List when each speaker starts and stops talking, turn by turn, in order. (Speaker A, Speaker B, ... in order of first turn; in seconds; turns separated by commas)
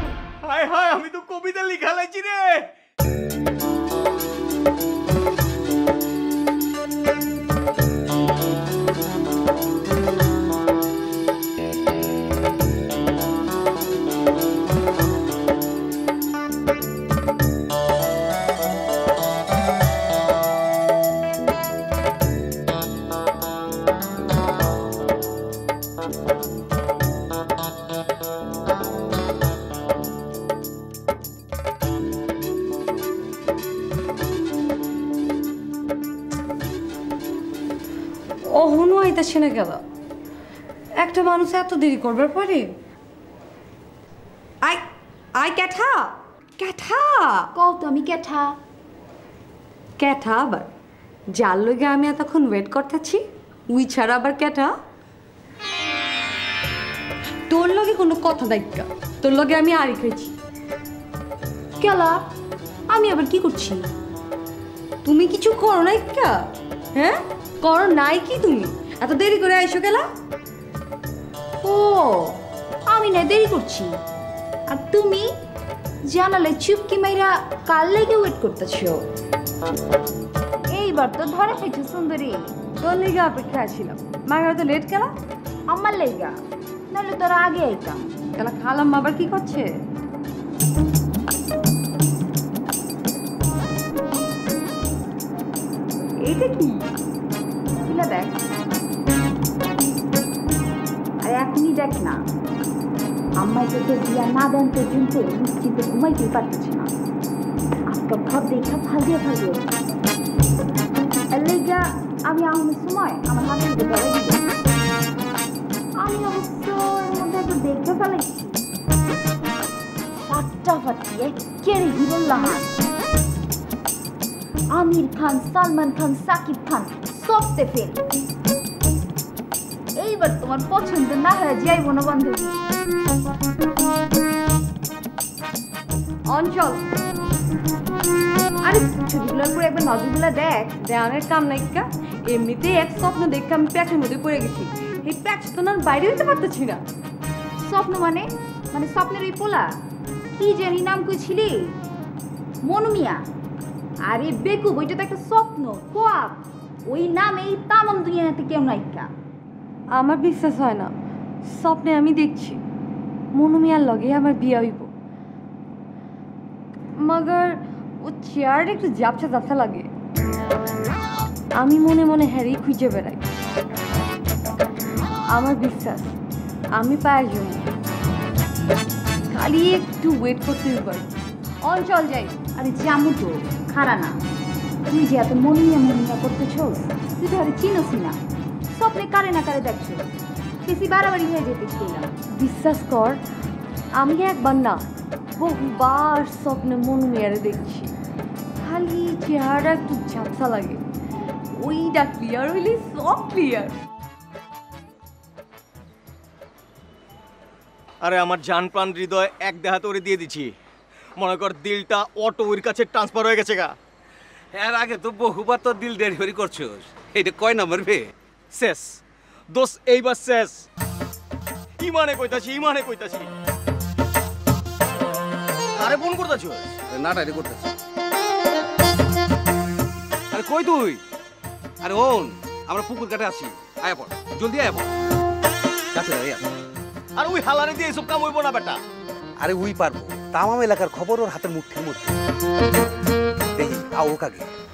Speaker A: 0.4-2.7, Speaker B: 38.5-39.8, Speaker B: 41.0-42.7, Speaker B: 45.4-47.4, Speaker C: 47.5-48.5, Speaker B: 50.0-50.7, Speaker B: 51.3-54.7, Speaker B: 57.5-60.3, Speaker C: 61.8-62.2, Speaker C: 62.9-63.8, Speaker B: 65.0-66.4, Speaker B: 66.9-70.1, Speaker C: 71.6-74.0, Speaker C: 74.7-75.3, Speaker C: 76.1-79.0, Speaker C: 80.7-82.5, Speaker B: 82.8-85.1, Speaker C: 85.7-86.3, Speaker C: 86.9-88.1, Speaker B: 88.3-89.7, Speaker C: 96.3-96.7, Speaker B: 96.3-96.6, Speaker C: 97.8-98.4, Speaker C: 101.2-102.2, Speaker C: 103.4-106.9, Speaker C: 107.9-109.8, Speaker C: 111.3-114.4, Speaker C: 116.0-118.6, Speaker C: 120.2-122.7, Speaker C: 124.7-128.0, Speaker C: 130.0-132.6, Speaker B: 136.3-136.8, Speaker C: 138.6-140.8, Speaker B: 140.8-146.8, Speaker C: 147.6-149.7, Speaker C: 150.3-151.7, Speaker C: 152.6-153.2, Speaker C: 154.1-159.1, Speaker B: 159.9-160.9, Speaker B: 161.4-162.6, Speaker B: 163.3-164.9, Speaker B: 167.0-169.9, Speaker B: 171.6-173.3, Speaker B: 175.3-176.1, Speaker B: 176.8-177.7, Speaker B: 179.3-181.1, Speaker B: 181.6-182.3, Speaker C: 182.6-184.2, Speaker C: 184.9-188.2, Speaker C: 188.7-192.1, Speaker B: 192.3-193.2, Speaker B: 194.0-197.9, Speaker B: 198.6-200.8, Speaker B: 201.6-203.7, Speaker A: 208.0-210.5, Speaker A: 211.2-213.7, Speaker D: 214.5-219.0, Speaker D: 219.6-220.5, Speaker A: 219.6-220.5, Speaker A: 221.8-223.3, Speaker A: 225.8-226.8, Speaker D: 226.9-227.7, Speaker D: 230.3-231.0, Speaker D: 231.8-234.9, Speaker D: 235.9-236.5, Speaker A: 237.2-238.8, Speaker D: 239.4-242.2, Speaker D: 243.6-244.5